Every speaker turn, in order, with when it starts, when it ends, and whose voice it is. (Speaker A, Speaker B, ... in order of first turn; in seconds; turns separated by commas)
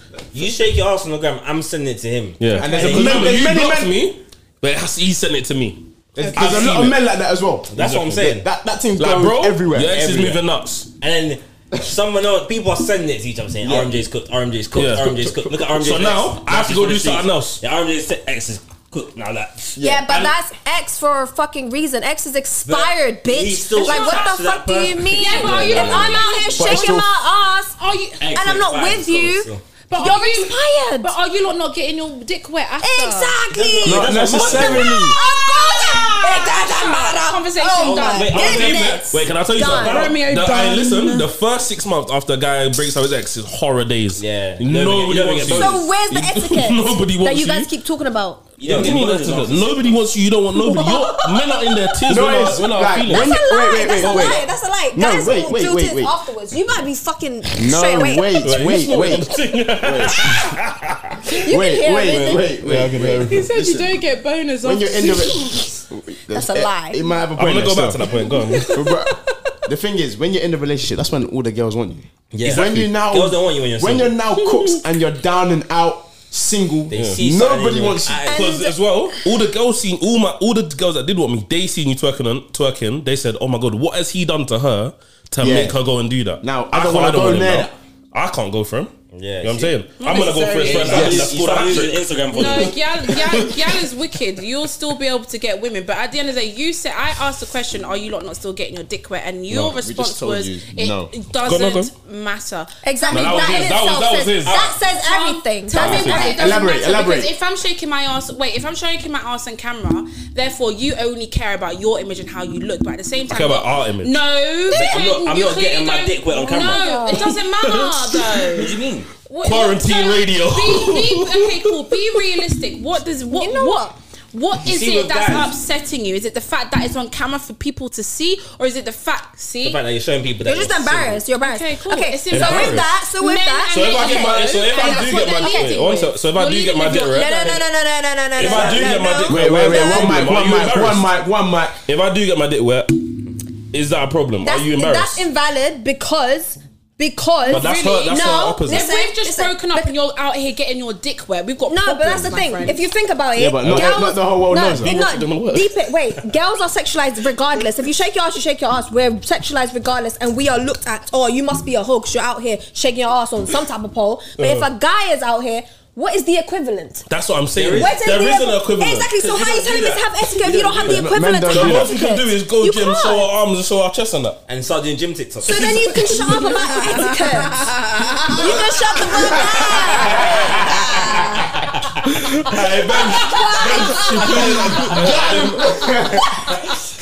Speaker A: 0.3-3.5, Speaker B: 2.4-7.0, Speaker C: 2.6-4.0, Speaker C: 6.1-10.0, Speaker A: 7.7-8.5, Speaker B: 8.9-10.9, Speaker A: 9.8-10.4, Speaker A: 11.0-20.3, Speaker C: 13.6-14.0, Speaker B: 14.7-17.6, Speaker C: 15.2-15.6, Speaker C: 19.8-20.1, Speaker D: 19.8-31.1, Speaker A: 22.6-26.2, Speaker E: 23.8-24.3, Speaker E: 25.1-27.0, Speaker B: 25.4-26.2, Speaker C: 26.5-27.1, Speaker E: 27.8-28.2, Speaker A: 28.2-29.6, Speaker E: 29.9-33.4, Speaker D: 32.8-40.2, Speaker A: 33.5-35.1, Speaker C: 33.8-35.2, Speaker B: 34.3-34.7, Speaker E: 35.1-38.6, Speaker A: 37.8-39.2, Speaker B: 38.3-47.7, Speaker E: 39.6-41.2, Speaker A: 44.1-45.8, Speaker D: 45.5-48.5, Speaker A: 48.6-50.0, Speaker B: 48.6-53.6, Speaker D: 50.5-52.0, Speaker C: 52.1-56.1, Speaker D: 53.1-58.3, Speaker A: 54.0-54.3, Speaker C: 57.5-60.4, Speaker B: 58.4-61.3, Speaker C: 61.3-64.0, Speaker D: 61.4-62.6, Speaker B: 62.0-63.5, Speaker E: 63.2-65.7, Speaker C: 64.6-68.1, Speaker D: 66.3-67.0, Speaker B: 67.3-68.9, Speaker C: 68.7-78.3, Speaker D: 68.8-69.1, Speaker A: 72.3-74.2, Speaker A: 76.9-78.5, Speaker B: 76.9-77.2, Speaker D: 78.3-79.4, Speaker B: 78.3-93.8, Speaker C: 85.4-85.8, Speaker C: 86.4-87.7, Speaker A: 89.1-89.8, Speaker E: 90.0-91.1, Speaker A: 90.6-92.8, Speaker C: 90.9-91.3, Speaker E: 92.3-103.8, Speaker C: 99.6-101.1, Speaker B: 101.4-101.9, Speaker D: 102.8-106.7, Speaker B: 103.1-104.6, Speaker E: 104.5-118.8, Speaker C: 105.8-107.3, Speaker B: 105.8-106.3, Speaker B: 113.3-114.2, Speaker A: 114.7-116.9, Speaker D: 116.4-117.3, Speaker B: 117.5-118.6, Speaker A: 118.5-119.1, Speaker E: 119.3-129.8, Speaker B: 119.4-121.9, Speaker D: 123.3-124.0, Speaker A: 124.6-125.5, Speaker A: 129.6-131.2, Speaker D: 130.4-135.9, Speaker E: 131.4-137.6, Speaker B: 132.3-132.8, Speaker A: 132.4-132.8, Speaker B: 133.7-137.5, Speaker D: 136.9-140.3, Speaker B: 138.3-141.1, Speaker A: 138.4-139.1, Speaker C: 139.3-141.8, Speaker B: 141.8-143.0, Speaker B: 143.7-145.2, Speaker D: 144.4-149.9, Speaker E: 147.5-152.8, Speaker B: 147.5-148.9, Speaker D: 151.7-167.1, Speaker C: 153.3-155.0, Speaker B: 153.6-154.0, Speaker B: 154.6-155.7, Speaker B: 164.4-164.7, Speaker B: 167.1-169.1, Speaker A: 167.5-168.0, Speaker D: 167.7-173.3, Speaker A: 169.1-171.1, Speaker C: 170.8-171.9, Speaker B: 171.5-174.4, Speaker A: 174.5-176.2, Speaker D: 175.4-177.7, Speaker E: 176.4-178.4, Speaker D: 178.3-181.5, Speaker C: 179.1-181.1, Speaker A: 180.0-181.9, Speaker B: 182.0-186.0, Speaker D: 182.9-184.9, Speaker A: 184.4-185.4, Speaker C: 184.9-186.3, Speaker A: 186.5-186.7